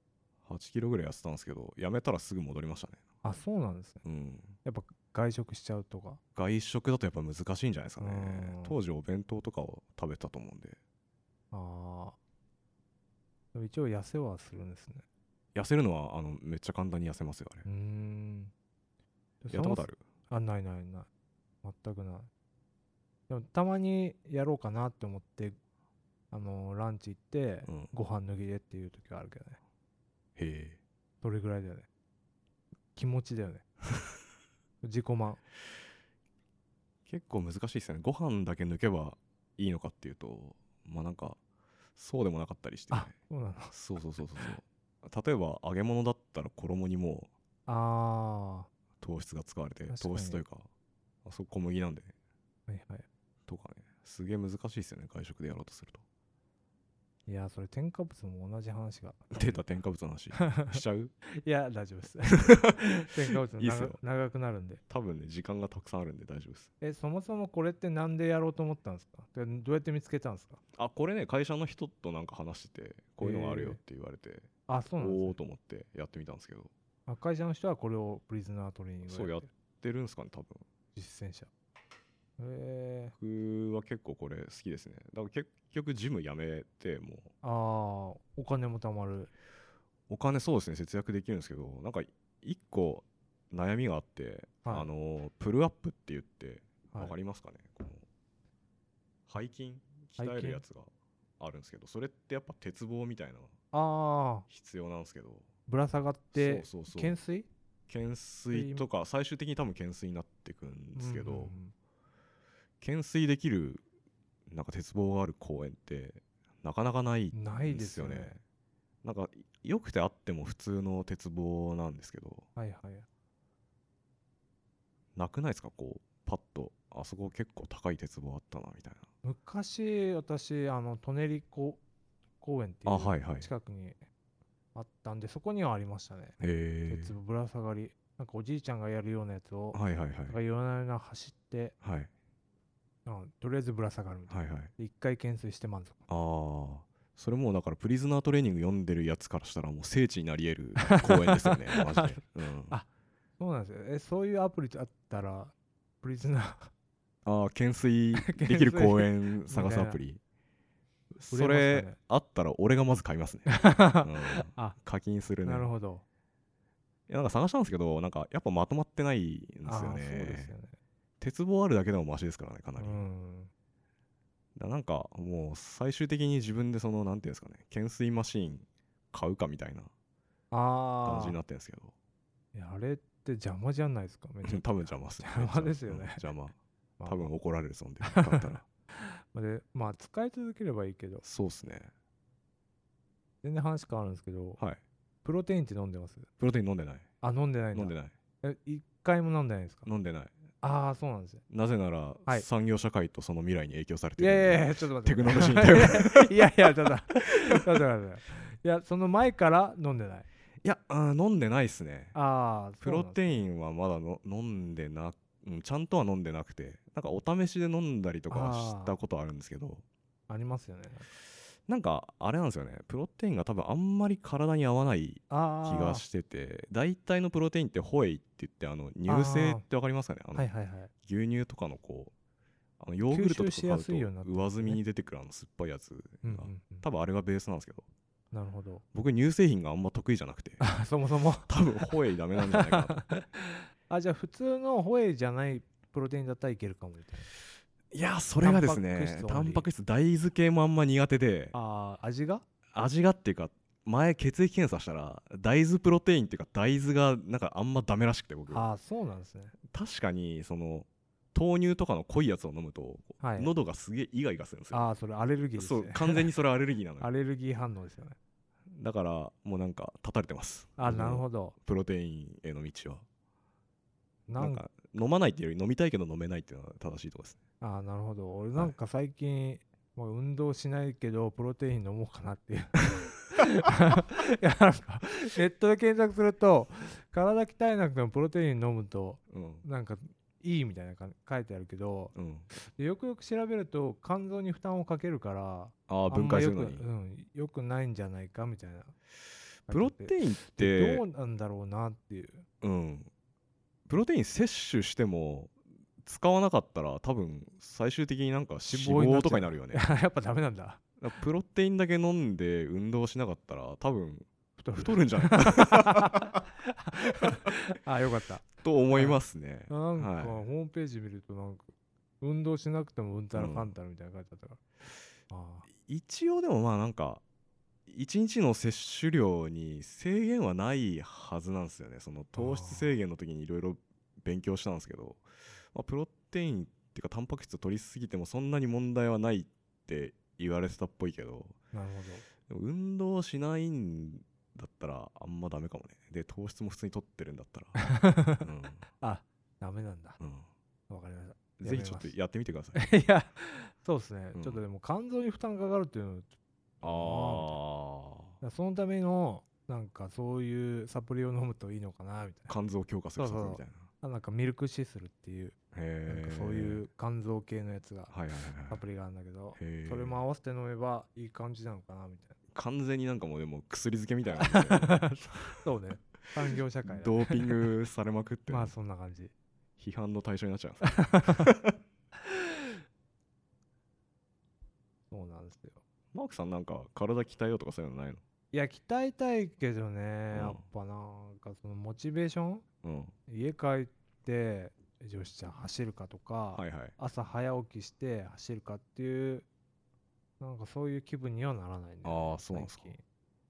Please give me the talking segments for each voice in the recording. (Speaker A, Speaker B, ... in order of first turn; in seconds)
Speaker A: 0.5-3.0, 4.0-4.6, 6.3-10.8, 15.5-17.7, 19.5-20.0, 27.7-27.9, 30.4-30.8, 37.1-41.4, 42.0-43.1, 43.7-47.3, 49.0-50.7, 51.2-52.1, 53.5-56.0, 59.3-61.1, 62.5-63.0, 63.5-64.0, 64.9-66.7, 70.7-76.7, 79.1-80.6, 83.2-87.3, 90.1-98.0, 99.3-103.5, 104.5-105.5, 106.3-107.2, 107.9-111.6, 112.8-113.8, 114.5-118.4, 119.0-122.5, 125.2-129.1, 132.9-133.5, 136.4-137.1, 139.7-140.4, 141.8-142.1, 144.3-144.7, 146.1-152.8, 157.2-160.2, 161.2-165.7, 167.1-170.5, 171.2-173.0, 174.6-179.9, 181.0-181.9, 184.4-188.6, 191.2-191.9, 196.4-197.1, 197.7-198.1, 199.8-200.3, 201.5-207.8, 210.6-212.2, 212.8-219.8, 221.7-230.5, 231.0-232.1, 232.8-237.9, 238.9-240.6, 241.5-243.2, 247.9-251.6, 252.7-258.7, 259.7-264.9, 265.6-267.1, 268.7-273.1, 274.4-277.4, 289.3-289.6, 292.1-292.5, 295.9-296.9, 299.7-301.0, 302.6-303.1, 303.9-309.8, 311.0-316.2, 318.6-320.4, 323.4-323.8, 325.8-327.2, 327.9-335.2, 335.7-341.6, 342.5-347.8, 348.4-348.8, 350.2-350.5, 351.6-352.8, 354.4-354.6, 356.8-358.4, 362.5-363.9, 365.7-366.9, 368.1-368.8, 369.6-370.2, 372.5-375.6, 376.9-378.7, 379.8-381.8, 386.1-388.2, 390.3-390.6, 392.8-393.1, 396.6-396.9, 402.0-402.9
Speaker B: 3.2-4.0, 4.6-6.2, 8.0-8.8, 11.5-12.2, 13.5-15.1, 17.6-18.5, 19.4-21.1, 21.6-22.3, 23.3-25.6, 26.3-29.6, 31.2-31.9, 33.0-33.6, 34.8-35.4, 42.9-43.7, 47.7-48.7, 49.9-50.4, 52.7-53.1, 57.3-59.6, 60.3-60.8, 61.3-64.8, 66.8-70.6, 73.2-73.8, 74.7-75.4, 77.1-79.5, 81.0-81.5, 82.4-83.1, 87.4-89.3, 94.6-94.9, 100.2-100.6, 103.7-104.5, 105.7-107.5, 108.5-108.9, 111.0-111.7, 117.3-118.4, 122.6-123.1, 129.2-131.8, 132.4-134.1, 134.8-141.8, 143.1-146.0, 150.8-152.9, 153.4-156.7, 158.1-160.0, 161.2-162.0, 163.5-164.8, 165.4-166.0, 169.6-170.8, 172.8-173.5, 180.5-181.4, 182.5-186.3, 187.0-187.3, 188.0-191.2, 193.4-194.6, 195.2-196.3, 197.2-199.9, 200.6-201.4, 204.2-210.3, 212.1-213.5, 218.3-219.0, 220.3-221.1, 225.3-226.1, 229.1-229.7, 230.3-230.9, 233.1-234.8, 236.2-236.9, 238.3-238.8, 240.6-241.6, 242.4-247.3, 248.4-249.7, 251.5-252.4, 258.5-259.6, 263.2-263.5, 264.7-266.3, 267.0-268.2, 270.8-271.6, 274.3-274.6, 277.6-282.8, 283.3-298.9, 299.7-302.5, 308.6-310.8, 314.6-319.2, 319.7-324.6, 325.3-325.7, 332.4-332.9, 341.7-342.2, 347.8-350.2, 350.9-352.1, 352.7-357.6, 358.4-362.6, 363.2-365.6, 366.1-368.1, 368.7-372.4, 374.4-377.6, 378.5-379.3, 380.8-381.5, 385.1-385.8, 388.5-392.6, 393.3-399.5, 400.4-403.0